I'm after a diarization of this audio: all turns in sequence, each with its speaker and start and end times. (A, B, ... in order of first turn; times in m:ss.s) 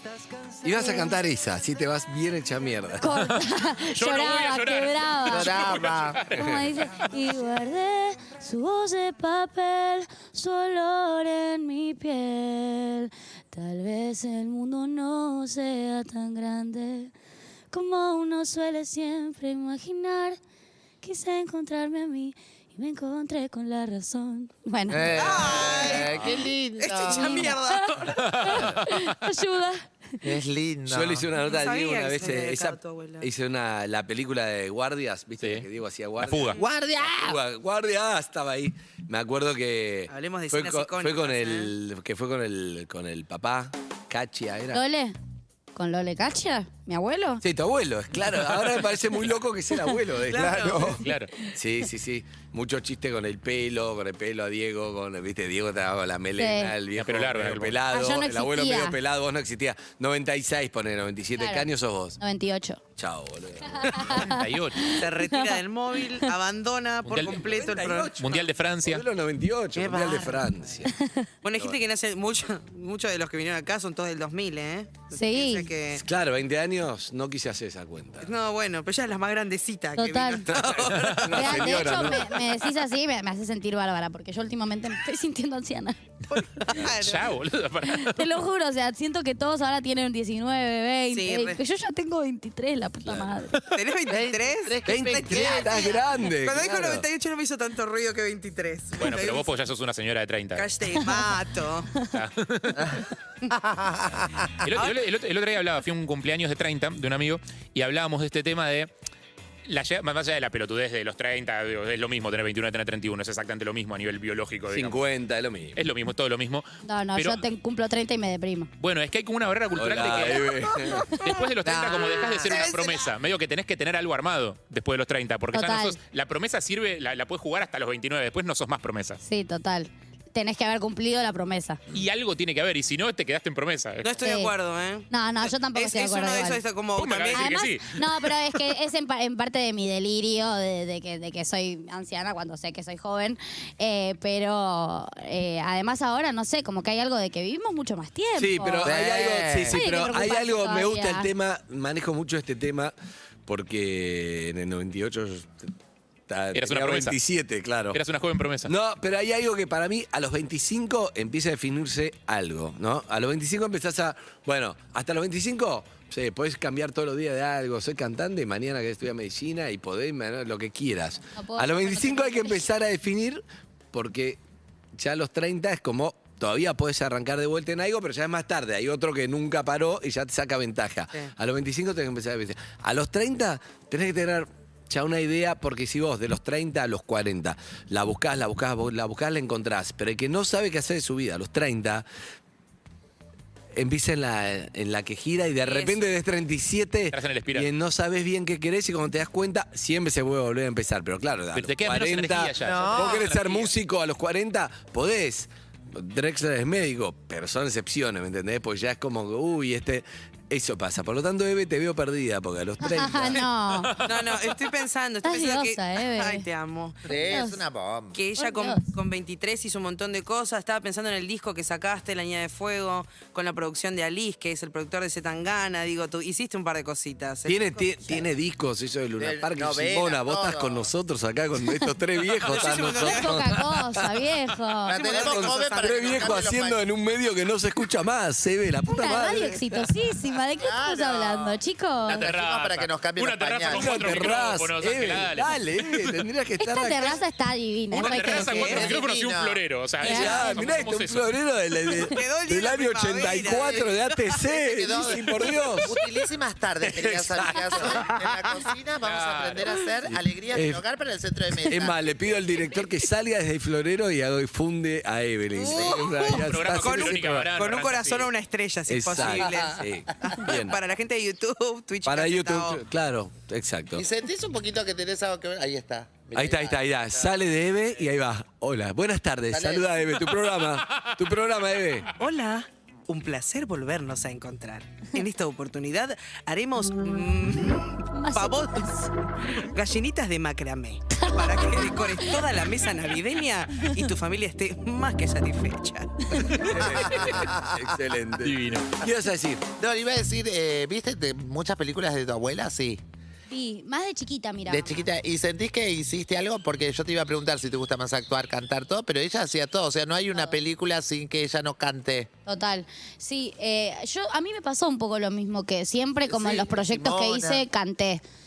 0:00.6-0:03.2 A
0:00.6-0:01.2 B
0:03.0-0:17.1 B
0:03.9-0:06.6 C
0:05.3-0:06.2 D
0:17.7-0:20.4 B
0:21.0-0:25.6 B
0:24.9-0:27.5 D
0:25.2-0:26.2 E
0:26.8-0:28.3 E
0:27.1-0:30.2 B
0:28.2-0:29.2 C
0:30.2-0:31.3 D
0:30.9-0:44.8 A
0:31.4-0:33.3 E
0:36.2-0:36.6 C
0:36.6-0:37.3 D
0:40.1-0:41.7 E
0:44.7-0:45.2 B
0:45.7-0:47.4 B
0:47.4-1:02.2 A
0:50.2-0:51.0 E
0:50.3-0:51.0 D
0:51.0-0:51.3 C
0:56.4-0:56.7 B
0:57.0-0:57.8 C
0:57.9-0:59.0 B
1:01.4-1:02.8 B
1:03.0-1:04.3 A
1:03.8-1:06.3 B
1:04.2-1:05.0 C
1:04.9-1:08.2 E
1:07.1-1:07.4 C
1:07.1-1:10.9 A
1:08.1-1:09.0 C
1:09.9-1:10.3 E
1:10.8-1:11.3 B
1:11.4-1:16.0 E
1:15.1-1:15.7 B
1:15.9-1:18.3 A
1:18.2-1:21.7 E
1:20.0-1:20.5 B
1:20.4-1:22.4 A
1:21.3-1:26.0 B
1:26.3-1:27.4 E
1:26.8-1:28.3 C
1:27.8-1:33.6 B
1:31.1-1:31.6 E
1:33.7-1:39.5 E
1:34.1-1:35.9 D
1:34.8-1:37.0 A
1:39.0-1:40.7 C
1:40.5-1:41.9 E
1:42.1-1:43.0 C
1:43.5-1:44.6 D
1:44.6-1:48.9 C
1:44.8-1:45.0 E
1:49.6-1:55.0 C
1:54.7-1:55.8 A
1:55.7-1:57.4 C
1:56.8-1:58.7 B
1:58.8-2:09.2 C
1:59.7-2:01.2 A
2:01.6-2:02.7 D
2:02.4-2:03.0 E
2:05.5-2:06.0 B
2:09.2-2:11.8 B
2:11.9-2:14.3 C
2:14.0-2:17.5 E
2:14.2-2:14.5 B
2:15.1-2:16.6 B
2:17.0-2:18.0 C
2:17.3-2:29.0 B
2:28.4-2:32.9 A
2:28.8-2:29.8 D
2:29.7-2:31.3 B
2:33.4-2:35.7 A
2:36.3-2:38.0 A
2:36.5-2:37.2 C
2:37.9-2:38.7 C
2:38.6-2:54.4 A
2:51.4-2:52.6 B
2:55.0-3:12.0 A
3:13.7-3:33.5 A
3:15.6-3:16.0 E
3:17.1-3:17.7 C
3:21.5-3:23.7 C
3:22.6-3:23.3 D
3:32.8-3:34.0 B
3:33.8-3:34.3 C
3:34.0-3:37.0 E
3:35.2-3:36.4 B
3:37.1-3:38.2 D
3:37.3-3:37.6 B
3:38.1-3:48.0 E
3:38.4-3:38.9 B
3:47.4-3:54.2 A
3:49.2-3:50.9 D
3:52.4-3:53.4 E
3:52.9-3:55.0 B
3:54.9-3:56.8 D
3:54.9-3:55.9 E
3:55.0-3:59.9 A
3:58.9-4:02.3 B
4:00.6-4:04.3 D
4:02.1-4:05.5 C
4:03.7-4:07.2 A
4:06.6-4:08.9 B
4:07.9-4:11.2 C
4:08.1-4:08.9 E
4:08.5-4:09.6 D
4:10.0-4:16.0 A
4:10.0-4:10.7 B
4:12.0-4:14.0 E
4:14.5-4:22.0 D
4:16.8-4:18.0 A
4:19.0-4:19.7 C
4:20.1-4:20.8 A
4:21.6-4:27.5 A
4:25.5-4:32.8 E
4:25.7-4:26.1 D
4:26.2-4:28.3 C
4:28.9-4:30.8 A
4:29.2-4:29.8 D
4:32.0-4:34.0 A
4:33.9-4:37.3 D
4:36.3-4:42.1 A
4:39.5-4:39.9 D
4:42.2-4:48.9 E
4:48.1-4:49.1 B
4:49.5-4:56.8 E
4:51.2-4:52.3 B
4:56.5-4:59.6 A
4:56.7-4:57.9 D
4:58.4-4:58.9 C
4:59.8-5:03.0 D
5:03.5-5:05.0 B
5:04.7-5:12.3 D
5:12.4-5:18.2 B
5:16.3-5:17.6 D